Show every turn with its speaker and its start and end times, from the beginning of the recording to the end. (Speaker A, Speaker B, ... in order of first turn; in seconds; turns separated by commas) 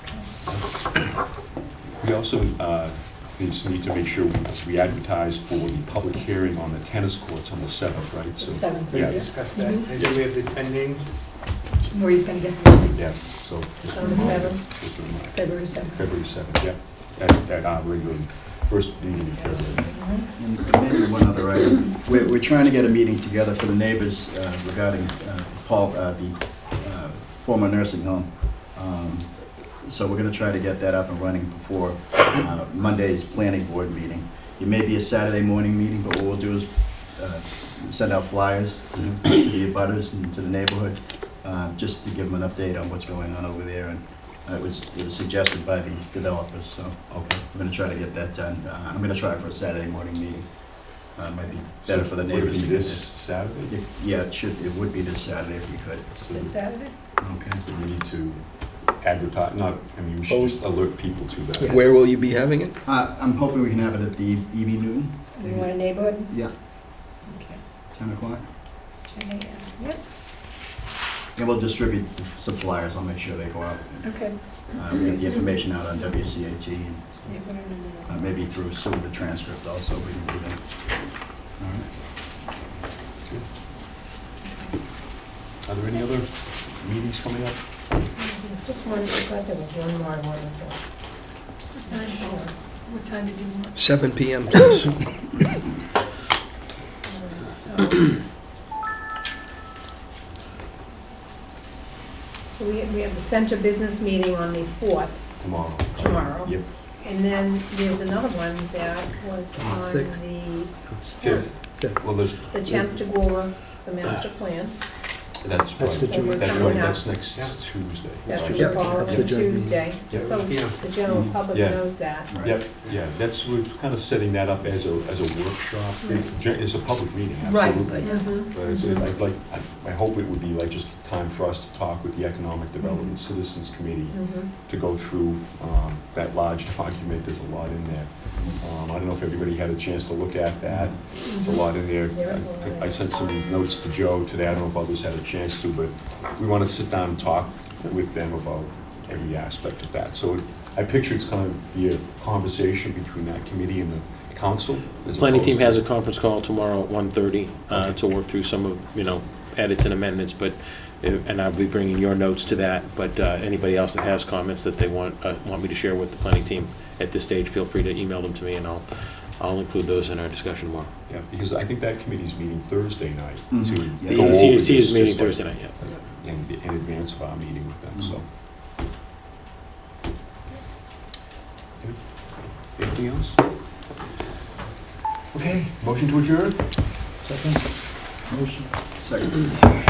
Speaker A: 0.5-1.1, Speaker A: 2.0-9.2, Speaker B: 8.4-9.9, Speaker C: 8.8-11.0, Speaker B: 11.9-12.9, Speaker A: 12.9-20.0, Speaker D: 13.9-14.6, Speaker B: 15.4-16.0, Speaker D: 19.7-20.1, Speaker E: 20.4-53.1, Speaker A: 47.1-47.4, Speaker A: 51.9-53.8, Speaker E: 53.7-56.2, Speaker A: 56.2-56.6, Speaker B: 56.3-57.0, Speaker E: 57.2-57.6, Speaker A: 57.5-61.9, Speaker F: 61.6-62.8, Speaker E: 62.9-65.8, Speaker B: 65.6-66.3, Speaker B: 67.3-67.6, Speaker E: 67.9-68.5, Speaker B: 69.1-70.0, Speaker E: 71.4-74.1, Speaker B: 74.1-74.4, Speaker E: 74.7-77.2, Speaker B: 77.3-78.1, Speaker E: 78.1-80.6, Speaker E: 81.6-81.9, Speaker A: 85.6-87.6, Speaker D: 88.2-90.8, Speaker B: 91.8-92.3, Speaker D: 91.8-92.5, Speaker B: 92.9-93.7, Speaker F: 93.8-95.3, Speaker D: 97.1-98.2, Speaker D: 102.5-105.2, Speaker A: 105.4-106.7, Speaker D: 106.0-111.5, Speaker A: 111.2-112.6, Speaker D: 112.5-114.8, Speaker A: 115.4-119.4, Speaker D: 116.1-117.0, Speaker C: 116.2-116.6, Speaker D: 118.3-122.3, Speaker F: 118.7-119.6, Speaker A: 120.1-120.6, Speaker E: 121.1-121.4, Speaker A: 121.4-155.8, Speaker E: 122.3-122.6, Speaker D: 126.0-126.3, Speaker D: 127.4-129.1, Speaker B: 128.1-128.4, Speaker D: 134.1-134.5, Speaker E: 140.7-140.9, Speaker D: 141.3-143.0, Speaker G: 155.2-170.9, Speaker A: 157.7-158.0, Speaker A: 171.1-178.2, Speaker E: 173.5-174.4, Speaker G: 174.1-175.9, Speaker A: 181.8-183.4, Speaker A: 185.3-186.9, Speaker E: 187.2-189.7